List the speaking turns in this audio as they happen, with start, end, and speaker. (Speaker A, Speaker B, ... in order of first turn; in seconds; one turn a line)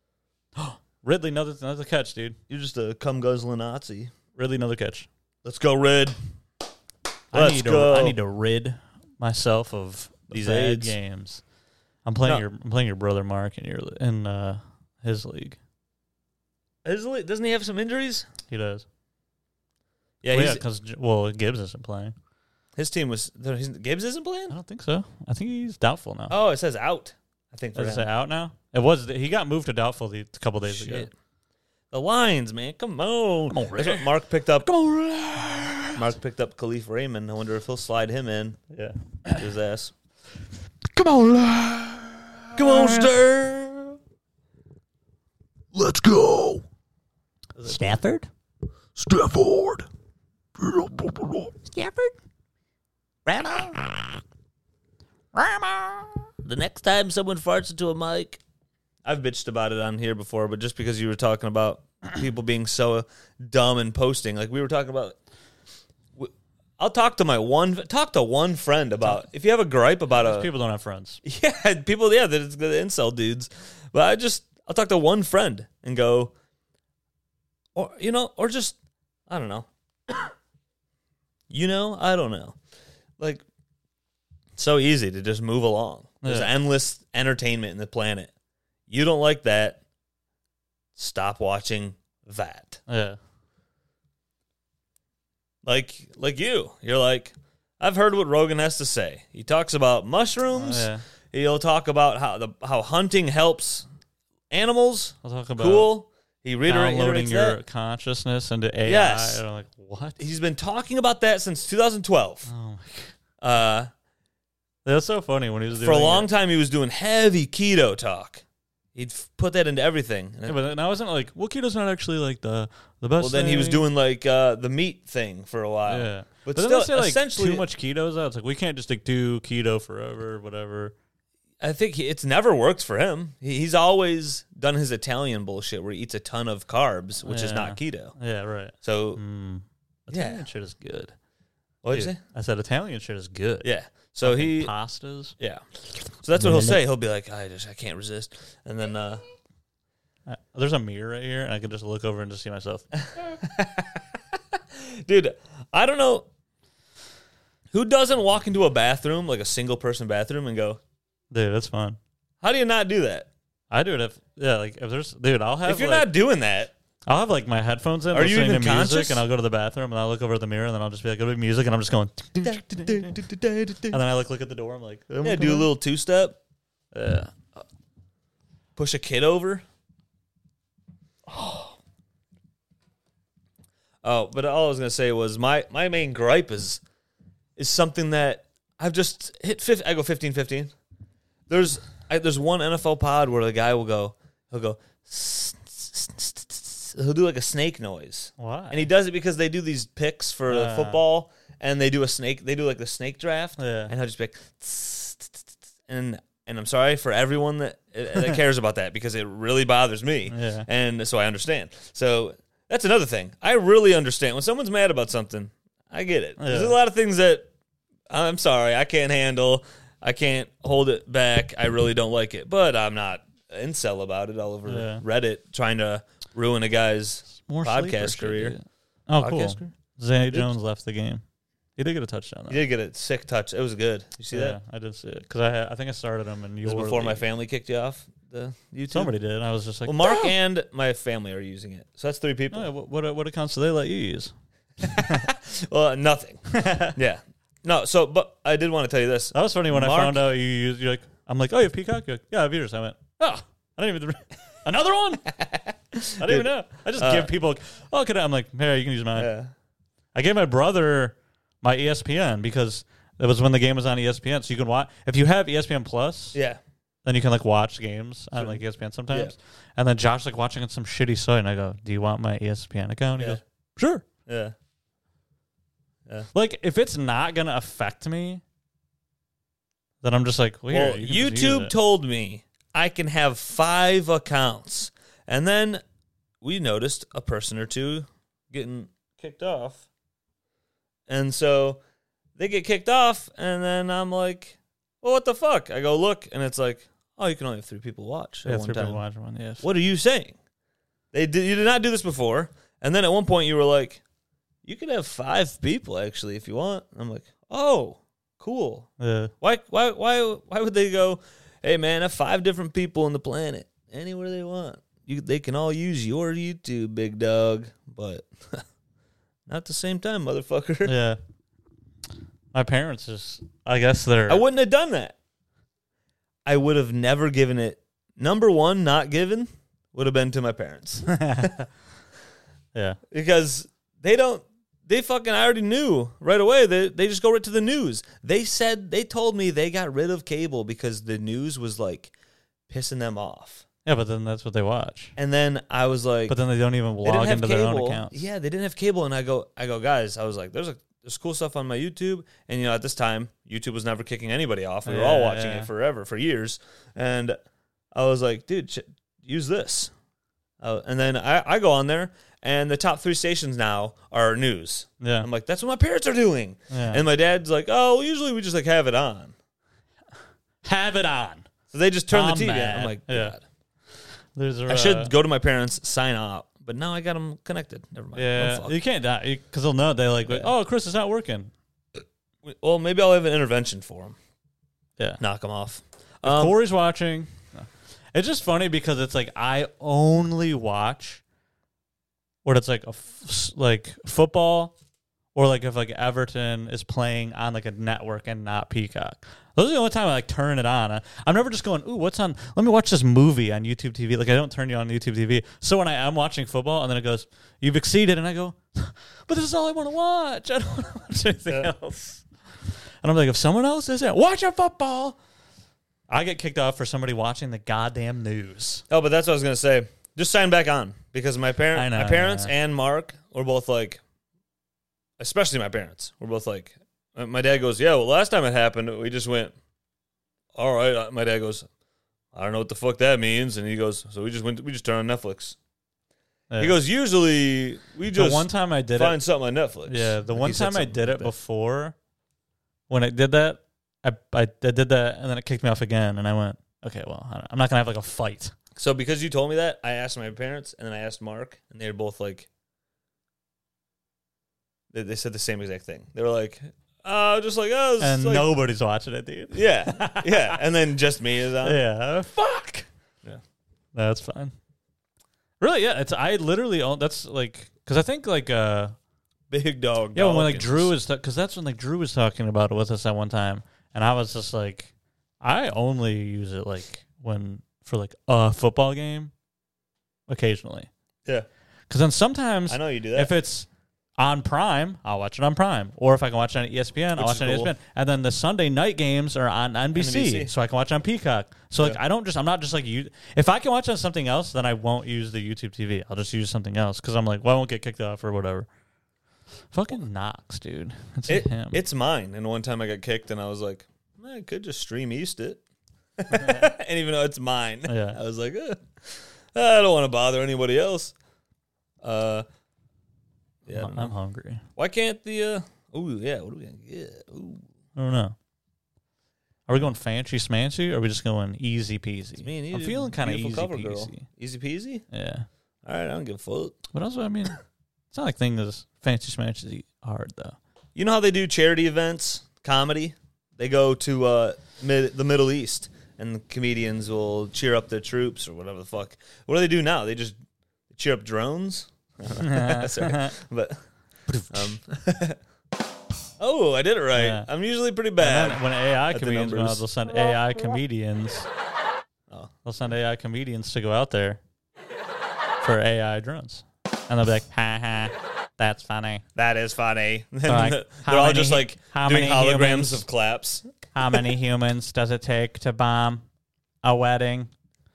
Speaker A: 0.6-2.4
Speaker B: 2.5-4.1
Speaker A: 4.3-5.1
Speaker B: 5.4-6.2
Speaker B: 7.3-8.2
Speaker A: 7.3-11.4
Speaker B: 10.3-11.0
Speaker A: 12.1-15.6
Speaker B: 16.8-18.3
Speaker A: 18.5-18.8
Speaker B: 20.2-20.6
Speaker A: 20.3-22.1
Speaker B: 22.8-24.6
Speaker A: 24.5-26.3
Speaker B: 26.3-28.1
Speaker A: 27.7-31.1
Speaker B: 30.6-31.1
Speaker B: 31.9-34.7
Speaker A: 33.5-36.0
Speaker B: 36.0-38.6
Speaker A: 38.7-39.5
Speaker B: 39.3-39.9
Speaker A: 40.9-43.1
Speaker B: 42.5-44.0
Speaker B: 45.7-46.6
Speaker A: 47.6-48.3
Speaker B: 47.7-48.0
Speaker B: 49.0-49.9
Speaker B: 50.6-51.6
Speaker A: 51.7-52.1
Speaker B: 53.3-53.8
Speaker A: 55.3-56.2
Speaker B: 56.4-58.4
Speaker B: 59.0-65.2
Speaker B: 66.2-70.5
Speaker A: 70.1-71.2
Speaker B: 71.2-76.3
Speaker B: 77.7-78.8
Speaker B: 79.3-80.3
Speaker B: 81.5-82.6
Speaker B: 83.2-83.4
Speaker B: 84.5-88.3
Speaker A: 86.2-86.5
Speaker B: 88.9-89.8
Speaker B: 91.0-92.8
Speaker A: 92.9-93.2
Speaker B: 95.6-103.9
Speaker A: 100.5-101.0
Speaker B: 104.5-107.6
Speaker A: 105.2-105.9
Speaker A: 106.7-110.2
Speaker B: 108.8-109.4
Speaker B: 110.2-112.5
Speaker A: 112.5-113.1
Speaker B: 113.4-113.9
Speaker A: 114.8-116.3
Speaker B: 115.8-118.4
Speaker B: 119.0-120.6
Speaker A: 120.5-123.9
Speaker B: 123.2-127.7
Speaker A: 125.9-130.9
Speaker B: 131.6-138.1
Speaker A: 137.3-141.1
Speaker B: 138.8-139.2
Speaker B: 140.1-140.4
Speaker B: 141.8-142.2
Speaker A: 141.9-143.7
Speaker B: 143.6-144.7
Speaker A: 144.2-145.3
Speaker B: 145.4-149.2
Speaker A: 146.4-146.8
Speaker A: 150.3-152.9
Speaker B: 153.1-156.3
Speaker B: 157.7-160.8
Speaker A: 161.3-162.0
Speaker B: 162.4-163.3
Speaker A: 163.7-166.1
Speaker B: 165.7-166.7
Speaker A: 167.1-173.2
Speaker B: 168.1-169.2
Speaker B: 172.4-174.0
Speaker A: 173.9-175.7
Speaker B: 175.2-176.4
Speaker A: 176.9-177.6
Speaker B: 178.8-179.6
Speaker A: 181.3-181.7
Speaker B: 184.0-186.8
Speaker B: 187.6-190.7
Speaker B: 191.5-217.5
Speaker A: 198.4-198.9
Speaker A: 200.5-201.0
Speaker A: 203.6-203.9
Speaker A: 210.3-210.7
Speaker A: 216.4-216.8
Speaker B: 218.1-228.6
Speaker A: 224.7-225.0
Speaker A: 227.3-231.2
Speaker B: 229.2-229.7
Speaker B: 230.3-230.5
Speaker A: 231.8-232.6
Speaker B: 232.5-234.6
Speaker A: 234.3-237.2
Speaker B: 236.6-239.1
Speaker A: 238.9-240.3
Speaker B: 239.8-242.7
Speaker A: 242.5-245.3
Speaker B: 244.8-250.3
Speaker A: 246.5-247.0
Speaker A: 249.3-255.3
Speaker B: 255.3-257.3
Speaker A: 256.2-259.3
Speaker B: 259.2-259.5
Speaker A: 260.1-266.4
Speaker B: 266.3-266.6
Speaker A: 267.1-274.1
Speaker B: 268.3-269.3
Speaker B: 274.3-274.6
Speaker A: 276.3-278.4
Speaker A: 280.0-281.7
Speaker B: 280.7-285.8
Speaker B: 286.4-289.9
Speaker B: 291.1-291.8
Speaker B: 292.4-299.0
Speaker A: 298.4-299.7
Speaker B: 299.6-300.4
Speaker B: 301.1-304.0
Speaker B: 304.6-308.9
Speaker A: 309.0-309.3
Speaker B: 309.4-318.6
Speaker B: 319.5-320.9
Speaker A: 320.8-321.2
Speaker A: 322.5-324.4
Speaker B: 324.3-325.2
Speaker B: 326.4-331.6
Speaker A: 331.1-331.6
Speaker B: 333.1-342.1
Speaker B: 342.7-343.6
Speaker A: 343.8-345.2
Speaker B: 345.2-346.4
Speaker A: 346.3-348.2
Speaker B: 347.0-357.4
Speaker A: 354.8-355.7
Speaker B: 357.9-359.9
Speaker B: 360.6-369.3
Speaker A: 365.0-365.3
Speaker A: 366.7-367.0
Speaker A: 370.6-371.5
Speaker B: 371.7-373.4
Speaker A: 372.1-373.4
Speaker A: 374.3-375.1
Speaker B: 374.7-378.8
Speaker A: 378.1-381.5
Speaker B: 382.4-384.2
Speaker B: 385.2-386.6
Speaker A: 386.2-391.2
Speaker A: 392.4-394.7
Speaker A: 395.3-412.2
Speaker A: 413.0-415.2
Speaker A: 416.1-418.8
Speaker B: 418.9-424.0
Speaker A: 421.7-422.5
Speaker B: 425.2-429.5
Speaker B: 430.6-431.7
Speaker B: 432.3-435.6
Speaker A: 436.5-436.7
Speaker B: 436.6-441.3
Speaker A: 438.1-439.2
Speaker A: 439.9-441.9
Speaker A: 442.9-448.5
Speaker B: 448.8-452.5
Speaker B: 454.9-458.5
Speaker A: 458.0-460.6
Speaker B: 459.5-461.8
Speaker A: 461.6-462.9
Speaker A: 463.9-464.5
Speaker A: 465.6-468.9
Speaker B: 469.5-470.9
Speaker A: 470.1-479.3
Speaker A: 480.3-480.9
Speaker A: 481.9-483.7
Speaker B: 482.7-483.3
Speaker A: 484.2-498.7
Speaker B: 487.2-487.7
Speaker B: 489.9-490.5
Speaker A: 499.7-501.8
Speaker B: 501.3-505.6
Speaker B: 506.2-511.1
Speaker A: 506.3-506.7
Speaker A: 507.9-508.2
Speaker B: 512.0-512.5
Speaker B: 513.6-514.1
Speaker A: 513.7-514.6
Speaker B: 514.8-517.6
Speaker A: 518.0-518.4
Speaker A: 519.7-524.3
Speaker B: 522.4-525.0
Speaker A: 525.1-525.5
Speaker B: 525.8-526.8
Speaker A: 526.9-527.6
Speaker A: 528.1-530.6
Speaker B: 531.0-540.4
Speaker B: 540.9-543.8
Speaker A: 542.3-543.3
Speaker A: 544.3-544.7
Speaker B: 544.5-545.4
Speaker B: 546.4-549.8
Speaker A: 547.1-547.5
Speaker A: 548.2-551.5
Speaker A: 552.6-554.4
Speaker A: 555.6-559.2
Speaker B: 559.3-564.2
Speaker A: 560.5-563.0
Speaker A: 563.9-566.2
Speaker A: 566.8-567.5